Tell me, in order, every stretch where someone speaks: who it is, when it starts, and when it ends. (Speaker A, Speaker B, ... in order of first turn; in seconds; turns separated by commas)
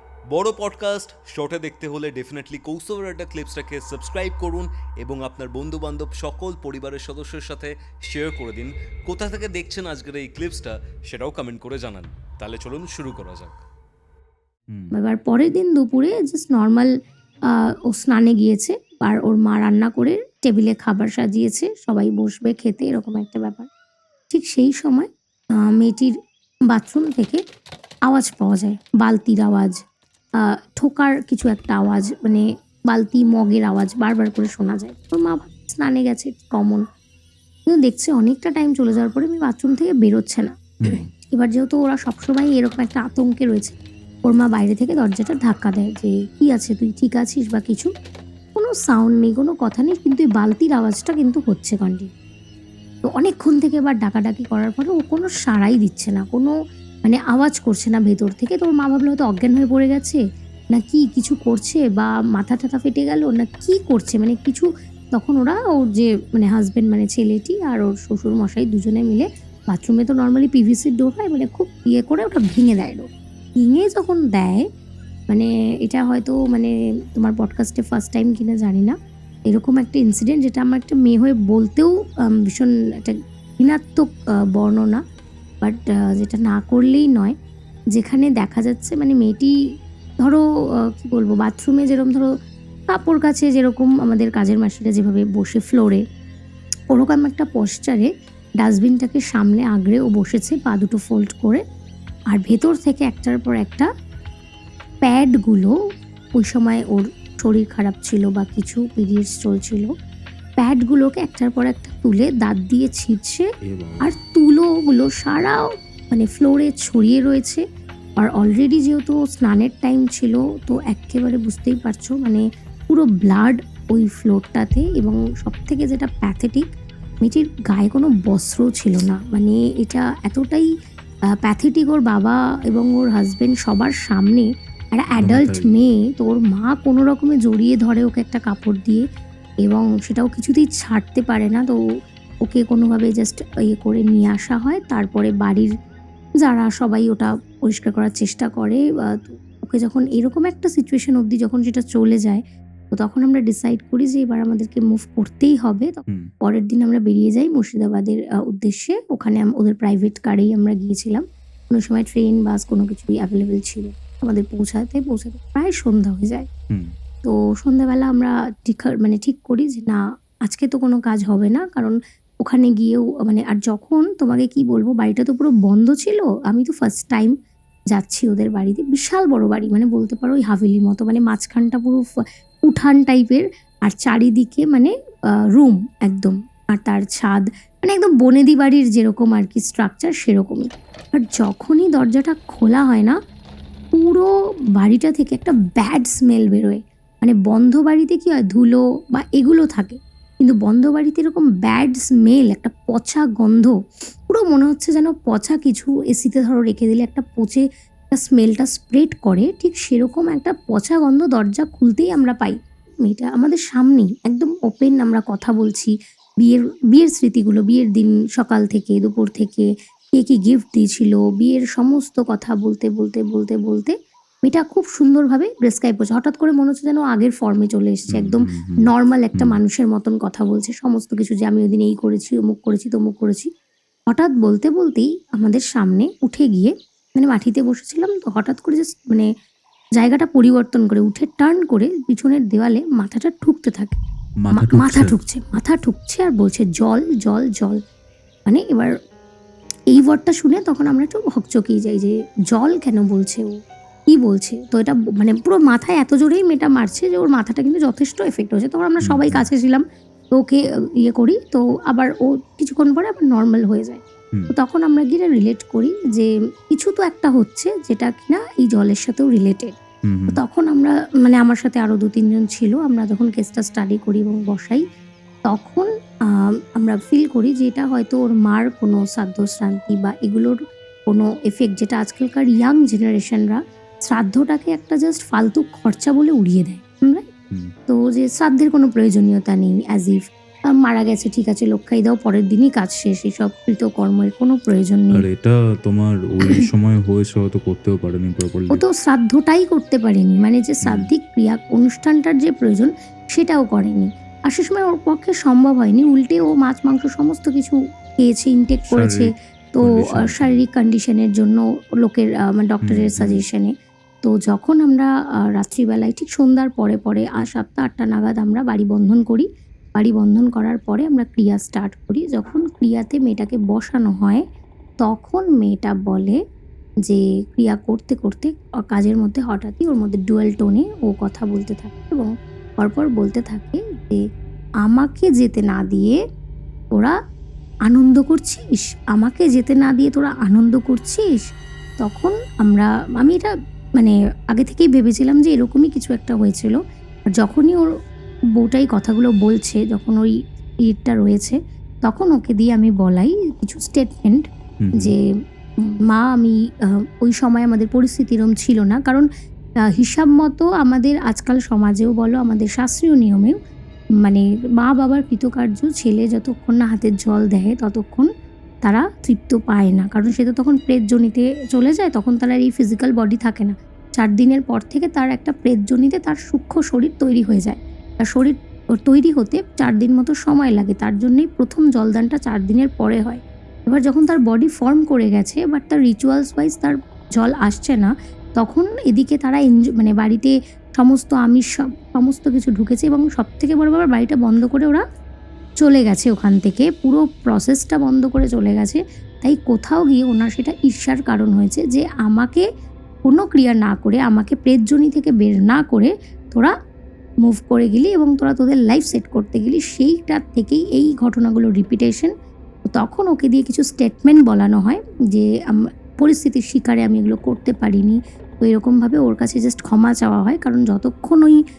Speaker A: 0.3-13.6, Speaker B: 14.9-16.9, Speaker B: 17.5-23.7, Speaker B: 24.3-25.1, Speaker B: 25.6-26.1, Speaker B: 26.7-27.4, Speaker B: 28.1-29.8, Speaker B: 30.8-36.8, Speaker B: 37.7-40.5, Speaker B: 41.2-47.9, Speaker B: 48.5-52.1, Speaker B: 53.0-56.5, Speaker B: 57.0-60.2, Speaker B: 60.7-73.0, Speaker B: 73.6-74.6, Speaker B: 75.3-78.9, Speaker B: 79.5-85.0, Speaker B: 85.6-87.3, Speaker B: 87.9-89.5, Speaker B: 91.0-92.2, Speaker B: 92.9-96.0, Speaker B: 96.9-98.1, Speaker B: 98.6-101.6, Speaker B: 102.3-103.9, Speaker B: 105.0-105.7, Speaker B: 106.4-109.9, Speaker B: 110.6-113.4, Speaker C: 113.7-114.1, Speaker B: 114.0-117.6, Speaker B: 118.2-126.7, Speaker B: 127.2-130.7, Speaker B: 131.4-139.0, Speaker C: 135.2-135.7, Speaker B: 139.6-141.8, Speaker B: 142.4-145.7, Speaker B: 146.4-166.5, Speaker B: 167.2-177.3, Speaker B: 177.9-182.0, Speaker B: 182.7-184.9, Speaker B: 185.5-193.2, Speaker B: 193.9-194.3, Speaker B: 194.8-203.7, Speaker B: 204.3-233.5, Speaker C: 228.1-229.6, Speaker B: 234.1-239.3, Speaker B: 239.9-244.0, Speaker C: 244.4-245.1, Speaker B: 244.5-247.8, Speaker B: 248.5-248.9, Speaker B: 249.9-253.5, Speaker B: 254.1-259.8, Speaker C: 259.0-259.4, Speaker B: 260.3-269.7, Speaker C: 270.1-270.4, Speaker B: 270.3-274.8, Speaker B: 275.5-275.9, Speaker B: 276.8-287.3, Speaker B: 287.9-295.2, Speaker C: 295.1-298.8, Speaker B: 298.7-313.7, Speaker C: 300.8-301.1, Speaker C: 308.9-310.6, Speaker C: 312.8-313.4, Speaker B: 314.2-324.4, Speaker B: 325.0-326.4, Speaker B: 327.0-334.2, Speaker B: 334.8-336.2, Speaker B: 337.9-341.4, Speaker B: 342.0-346.8, Speaker B: 347.4-347.8, Speaker B: 348.6-350.3, Speaker B: 350.9-354.4, Speaker C: 354.8-355.1, Speaker B: 355.0-355.2, Speaker B: 356.1-359.3, Speaker B: 359.9-363.5, Speaker B: 364.2-368.3, Speaker B: 368.8-395.0, Speaker B: 395.8-402.6, Speaker B: 403.2-406.7, Speaker B: 407.4-412.3, Speaker B: 412.9-421.6